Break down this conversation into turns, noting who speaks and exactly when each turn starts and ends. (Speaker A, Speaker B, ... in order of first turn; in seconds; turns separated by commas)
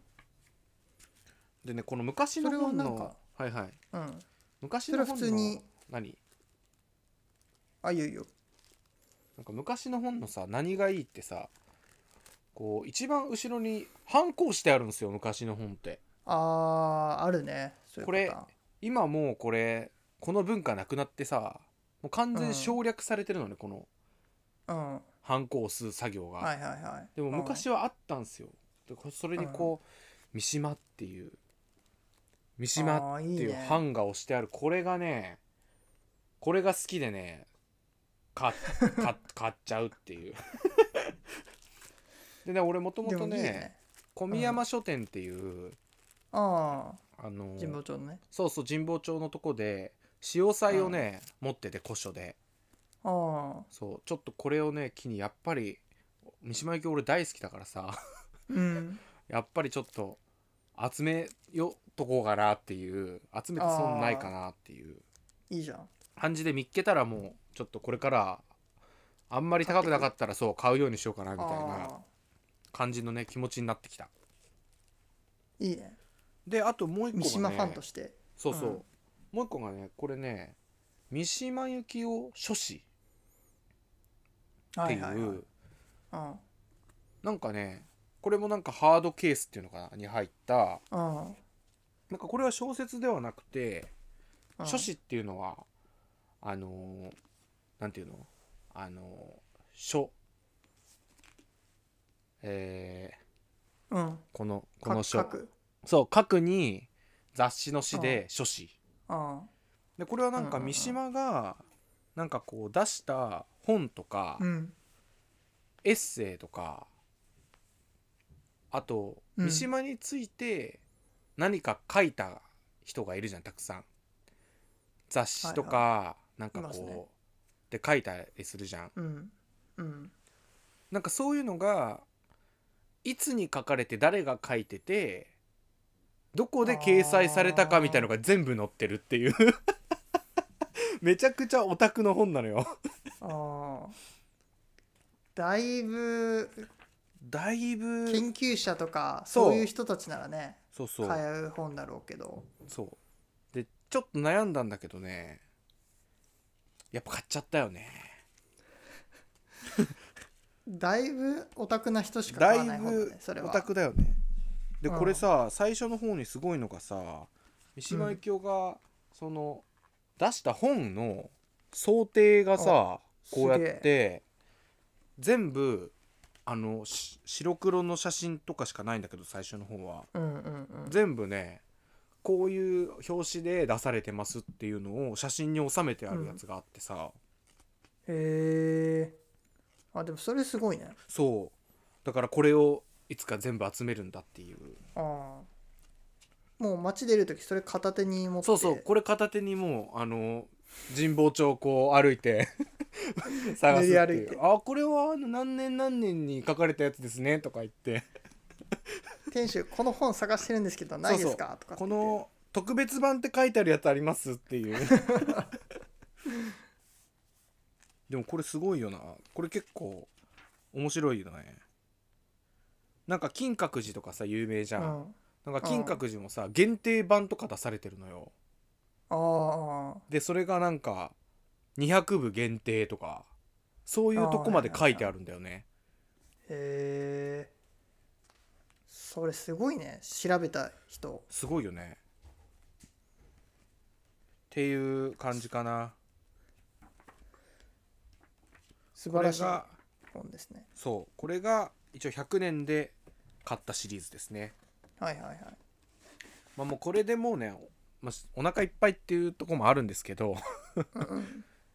Speaker A: 1.6-3.8, Speaker B: 2.4-3.2, Speaker B: 3.9-4.2, Speaker A: 4.6-6.2, Speaker B: 4.9-5.7, Speaker B: 7.8-8.3, Speaker A: 9.4-11.5, Speaker A: 12.5-16.0, Speaker B: 16.2-18.5, Speaker A: 18.0-23.9, Speaker B: 22.3-22.8, Speaker B: 24.7-25.1, Speaker A: 25.2-26.5, Speaker B: 26.4-27.6, Speaker A: 27.1-31.4, Speaker B: 29.4-29.7, Speaker A: 32.6-35.4, Speaker B: 32.7-33.8, Speaker A: 36.4-37.5, Speaker A: 38.3-41.1, Speaker B: 38.8-39.0, Speaker A: 42.4-45.8, Speaker B: 43.0-43.8, Speaker B: 44.3-44.6, Speaker B: 46.3-47.0, Speaker A: 47.2-47.8, Speaker B: 47.6-48.2, Speaker A: 48.3-52.4, Speaker B: 50.7-51.0, Speaker B: 53.0-53.7, Speaker A: 53.7-55.8, Speaker A: 56.4-58.0, Speaker B: 58.5-59.0, Speaker A: 59.3-60.2, Speaker A: 60.8-65.0, Speaker B: 63.6-64.3, Speaker B: 65.5-65.9, Speaker A: 66.2-68.5, Speaker A: 69.3-71.9, Speaker B: 69.6-70.1, Speaker B: 71.4-72.1, Speaker A: 72.7-74.1, Speaker B: 75.6-76.0, Speaker A: 76.5-77.8, Speaker B: 77.1-78.8, Speaker A: 78.4-80.6, Speaker A: 81.1-82.8, Speaker B: 84.8-85.4, Speaker A: 84.8-85.5, Speaker B: 86.1-86.4, Speaker A: 87.2-90.8, Speaker B: 90.9-91.4, Speaker A: 92.1-93.9, Speaker B: 94.6-94.9, Speaker A: 94.6-95.7, Speaker A: 96.4-97.2, Speaker A: 97.8-100.1, Speaker A: 102.4-103.2, Speaker B: 103.9-104.2, Speaker A: 104.3-105.3, Speaker B: 104.8-105.5, Speaker A: 105.8-108.7, Speaker B: 107.9-108.2, Speaker B: 109.1-109.5, Speaker A: 110.0-111.6, Speaker B: 110.4-111.0, Speaker A: 112.1-114.4, Speaker B: 114.4-114.7, Speaker A: 115.8-116.9, Speaker A: 118.7-120.8, Speaker B: 119.4-119.7, Speaker A: 121.4-123.8, Speaker A: 125.1-127.1, Speaker B: 125.4-125.8, Speaker B: 126.5-127.0, Speaker A: 127.7-128.9, Speaker B: 128.9-130.1, Speaker A: 130.9-132.0, Speaker A: 133.0-135.3, Speaker A: 136.3-139.6, Speaker B: 136.6-138.1, Speaker A: 141.0-142.7, Speaker B: 143.2-143.9, Speaker B: 145.3-146.7, Speaker A: 147.2-148.3, Speaker B: 148.1-152.5, Speaker A: 149.3-149.7, Speaker A: 150.7-151.2, Speaker A: 152.7-153.0, Speaker A: 153.5-155.4, Speaker A: 156.9-158.2, Speaker B: 160.7-163.7, Speaker A: 162.3-164.2, Speaker A: 164.8-169.6, Speaker B: 164.9-165.2, Speaker B: 167.9-168.2, Speaker A: 170.2-174.2, Speaker B: 172.6-173.9, Speaker A: 175.2-175.9, Speaker A: 176.4-180.1, Speaker B: 180.1-181.0, Speaker A: 180.8-181.6, Speaker A: 182.2-187.1, Speaker B: 186.1-186.4, Speaker B: 188.1-189.2, Speaker B: 189.9-191.0, Speaker A: 191.1-194.8, Speaker B: 194.9-195.5, Speaker B: 196.6-198.8, Speaker A: 198.4-208.1, Speaker B: 203.6-204.4, Speaker B: 209.3-212.2, Speaker A: 211.1-215.4, Speaker B: 214.9-215.4, Speaker A: 218.1-220.1, Speaker A: 220.7-221.6, Speaker A: 223.1-228.3, Speaker B: 224.8-226.0, Speaker B: 229.1-230.0, Speaker A: 230.1-231.1, Speaker A: 231.8-233.3, Speaker A: 233.8-235.6, Speaker B: 234.2-235.1, Speaker B: 236.5-237.5, Speaker B: 238.9-241.2, Speaker A: 241.3-242.0, Speaker A: 244.5-245.9, Speaker B: 248.9-250.7, Speaker A: 249.1-249.7, Speaker A: 250.8-254.5, Speaker B: 255.0-255.6, Speaker A: 256.6-260.9, Speaker B: 260.9-261.4